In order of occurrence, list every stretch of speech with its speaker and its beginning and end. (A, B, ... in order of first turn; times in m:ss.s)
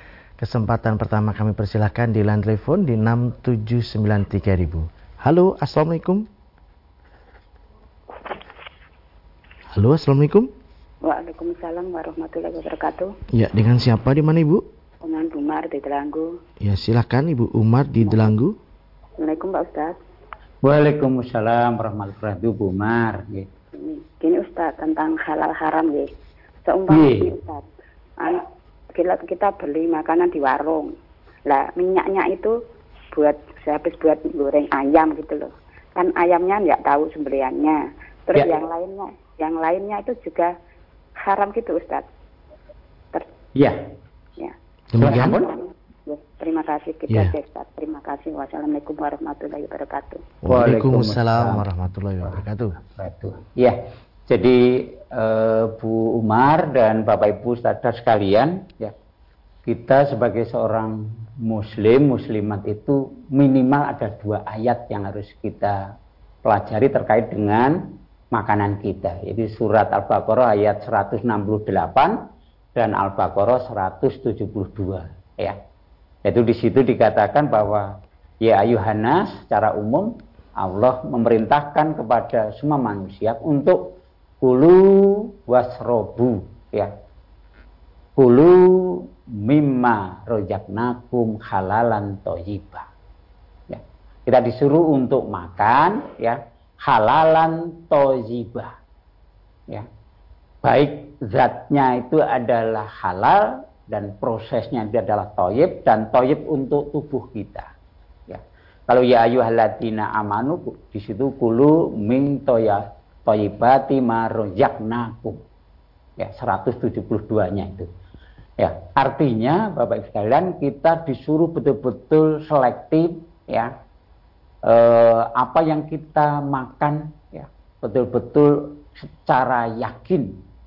0:00.4-0:06.3 A
0:09.7-0:10.5 A
0:11.0-0:13.2 B
0:13.3-0:14.6 A
0:15.0-0:16.4 B
0:16.6-0:18.6 A
0:19.2-0:20.0 B
0:20.6-0:23.5 C
0:23.8-0:26.1 B
0:26.7-0:27.6 B
0:26.9-0:27.3 C
0:28.2-0:30.9 B
0:31.5-0:32.6 B
0:33.1-0:40.5 B
0:41.2-0:42.1 B
0:44.4-0:50.2 B
0:44.9-0:45.4 A
0:45.0-0:45.5 C
0:50.4-0:52.8 A
0:50.5-0:51.6 C
0:52.2-0:53.8 C
0:54.3-0:58.9 C
0:59.7-1:05.8 C
1:06.4-1:07.8 C
1:08.3-1:12.2 C
1:12.8-1:15.6 C
1:16.2-1:17.9 C
1:18.4-1:26.9 C
1:28.2-1:32.9 C
1:33.7-1:38.8 C
1:40.6-1:47.7 C
1:48.3-1:55.4 C
1:56.2-1:57.9 C
1:58.6-2:03.7 C
2:04.7-2:10.4 C